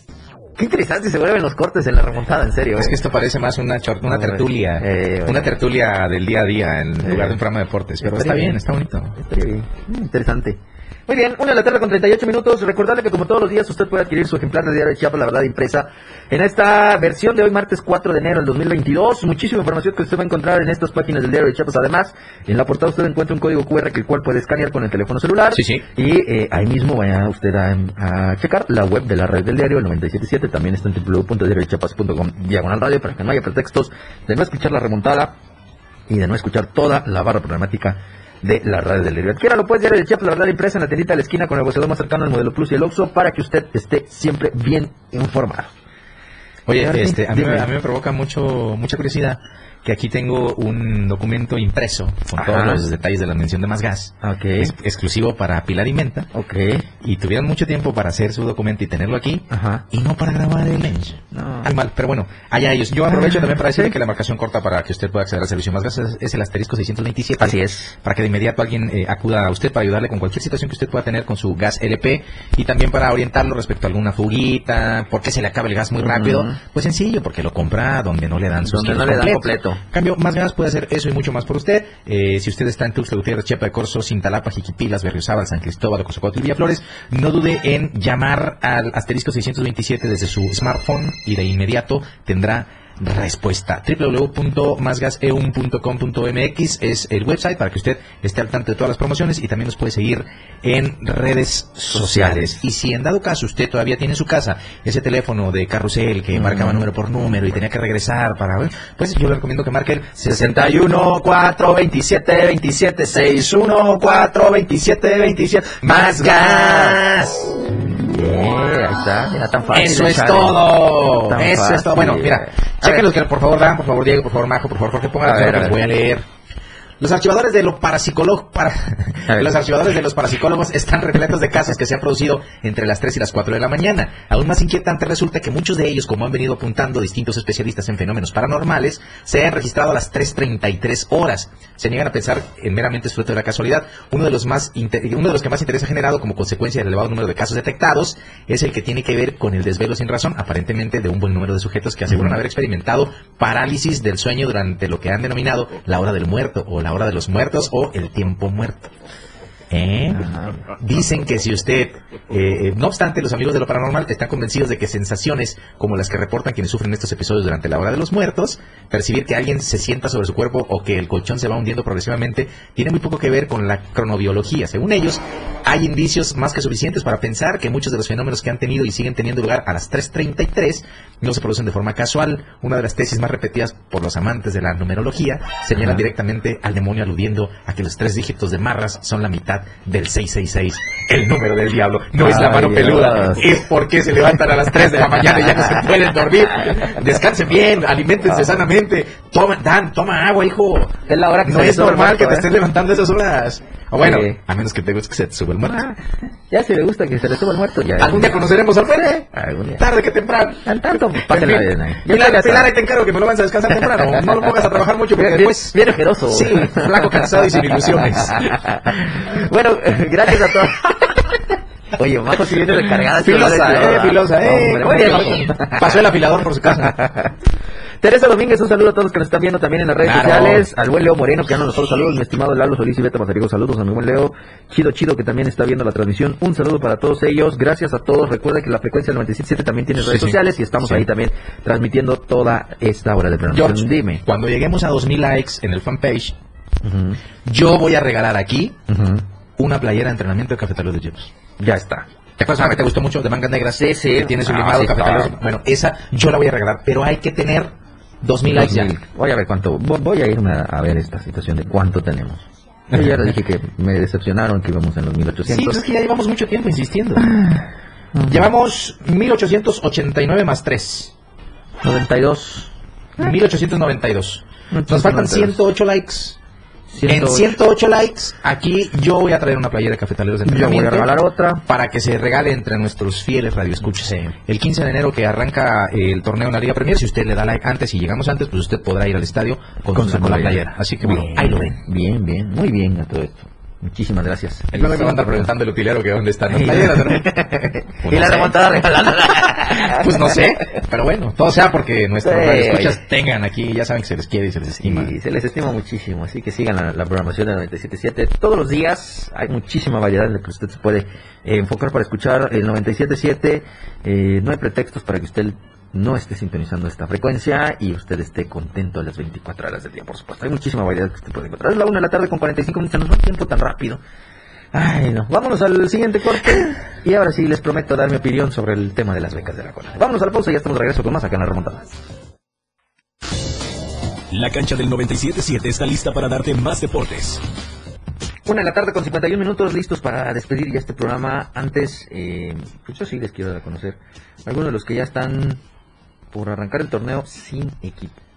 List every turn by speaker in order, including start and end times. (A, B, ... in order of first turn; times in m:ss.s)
0:00.6-0:03.0 A
0:02.7-0:09.2 B
0:04.0-0:05.5 A
0:07.0-0:07.4 A
0:08.0-0:08.6 A
0:09.1-0:35.3 A
0:25.5-0:25.8 B
0:36.1-0:45.7 A
0:46.7-0:56.3 B
0:46.8-0:47.7 A
0:52.4-0:53.0 A
0:54.2-0:54.7 A
0:56.3-0:56.9 A
0:57.0-1:57.6 B
0:59.5-0:59.8 A
1:01.3-1:01.7 A
1:03.1-1:03.9 A
1:07.4-1:07.9 A
1:16.0-1:16.6 A
1:18.6-1:19.8 A
1:41.9-1:42.6 A
1:46.3-1:46.8 A
1:50.2-1:50.8 A
1:55.8-1:57.0 A
1:58.1-2:03.0 A
1:59.7-2:06.2 B
2:05.2-2:05.8 A
2:07.0-2:38.9 B
2:09.3-2:09.5 A
2:39.7-3:26.0 B
2:40.1-2:40.6 A
3:05.8-3:06.0 A
3:12.2-3:13.5 A
3:18.3-3:18.6 A
3:21.1-3:22.5 A
3:24.0-3:24.4 A
3:26.5-3:29.8 A
3:28.0-3:29.2 B
3:29.8-3:35.8 B
3:30.6-3:32.7 A
3:33.9-3:34.5 A
3:35.1-3:41.4 A
3:36.3-3:38.9 B
3:41.9-3:46.0 A
3:42.7-3:47.0 B
3:46.8-3:47.3 A
3:48.0-4:04.2 A
3:50.0-3:50.7 B
3:59.9-4:01.0 B
4:03.5-4:06.4 B
4:06.8-4:07.2 A
4:07.4-4:08.8 B
4:08.9-4:09.2 A
4:09.6-4:11.3 B
4:11.6-4:12.0 A
4:12.4-4:17.7 B
4:13.8-4:15.3 A
4:18.2-4:18.9 B
4:18.5-4:25.8 A
4:25.5-4:27.3 B
4:27.2-4:28.5 A
4:28.3-4:31.1 B
4:31.8-4:32.7 A
4:33.2-4:36.4 B
4:34.7-4:35.6 A
4:36.9-4:37.5 A
4:37.0-4:41.1 B
4:40.4-4:41.6 A
4:41.6-4:51.8 B
4:49.9-4:55.5 A
4:54.7-4:57.4 B
4:56.5-5:00.7 A
4:58.0-4:58.8 B
4:59.5-5:05.1 B
5:02.2-5:03.0 A
5:04.8-5:24.0 A
5:24.7-5:31.9 A
5:34.3-5:37.4 C
5:38.4-5:45.6 A
5:46.3-5:48.2 A